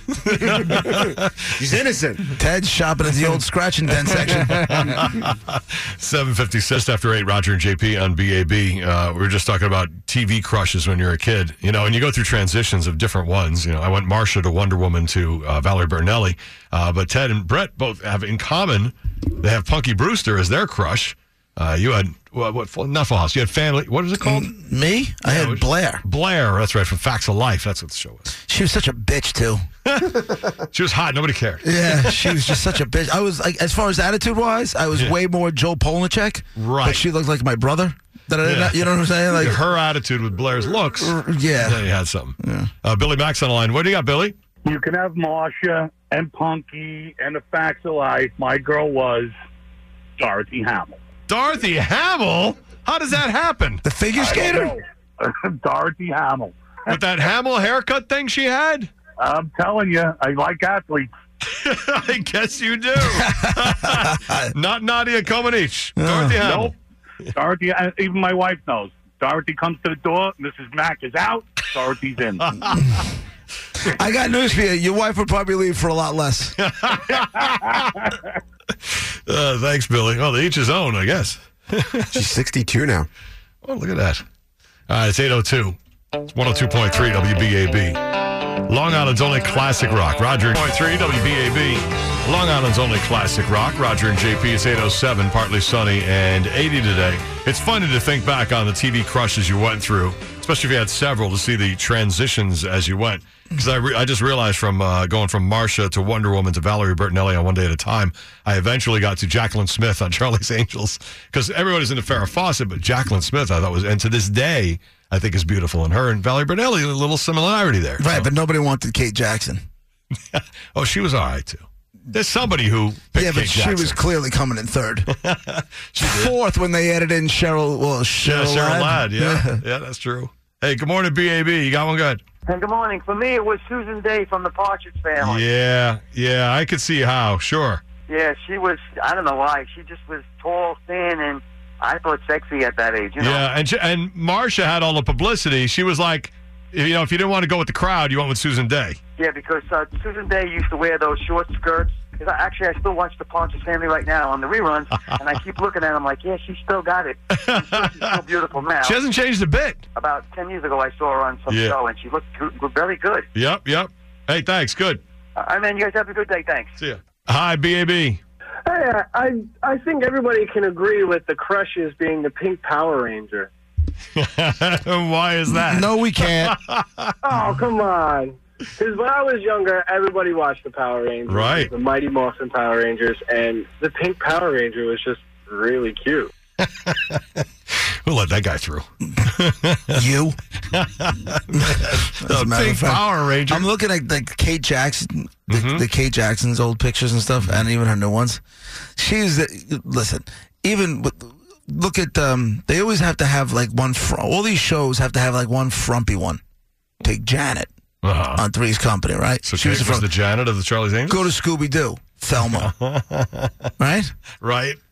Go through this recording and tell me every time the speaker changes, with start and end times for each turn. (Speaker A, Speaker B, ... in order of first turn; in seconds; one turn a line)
Speaker A: 0.2-1.4
Speaker B: 0.6-2.4
Speaker C: 2.3-5.0
Speaker A: 4.1-24.5
Speaker C: 24.2-26.0
Speaker A: 25.2-28.3
Speaker C: 28.5-29.6
Speaker A: 29.8-32.6
Speaker C: 31.6-39.6
Speaker A: 36.6-37.0
Speaker A: 38.4-44.4
Speaker C: 41.0-42.7
Speaker D: 44.7-49.3
Speaker D: 50.2-50.9
Speaker A: 51.3-53.8
Speaker C: 53.8-54.8
Speaker D: 55.6-56.5
Speaker A: 56.9-58.9
Speaker D: 59.2-61.1
Speaker A: 61.5-67.3
Speaker C: 63.0-64.5
Speaker C: 66.0-66.4
Speaker D: 67.4-72.3
Speaker A: 72.5-73.1
Speaker C: 73.8-76.6
Speaker A: 76.6-78.0
Speaker A: 78.8-82.2
Speaker B: 82.1-83.1
Speaker A: 83.6-84.2
Speaker A: 84.9-85.8
Speaker A: 86.3-118.3
Speaker C: 118.0-119.6
Speaker A: 120.3-124.0
Speaker C: 123.1-125.1
Speaker A: 125.1-126.3
Speaker C: 126.0-129.6
Speaker A: 128.2-132.2
Speaker E: 132.4-135.4
Speaker A: 135.2-137.8
Speaker E: 138.1-143.4
Speaker A: 143.2-149.0
Speaker E: 149.2-159.0
Speaker A: 157.3-158.2
Speaker A: 158.8-159.8
Speaker E: 159.9-163.3
Speaker A: 161.5-161.8
Speaker A: 163.3-165.0
Speaker E: 165.3-166.8
Speaker A: 166.8-168.2
Speaker F: 168.7-173.5
Speaker A: 174.2-175.9
Speaker C: 175.5-176.6
Speaker A: 176.4-177.5
Speaker F: 177.2-186.3
Speaker A: 181.2-181.7
Speaker A: 186.6-190.0
Speaker C: 189.9-190.4
Speaker A: 190.7-193.7
Speaker C: 191.5-198.4
Speaker A: 195.5-195.8
Speaker C: 198.9-206.4
Speaker C: 207.0-207.7
Speaker A: 208.0-208.4
Speaker C: 208.3-210.1
Speaker A: 209.4-211.3
Speaker C: 211.1-212.7
Speaker A: 212.4-213.7
Speaker C: 213.8-214.1
Speaker A: 214.4-214.8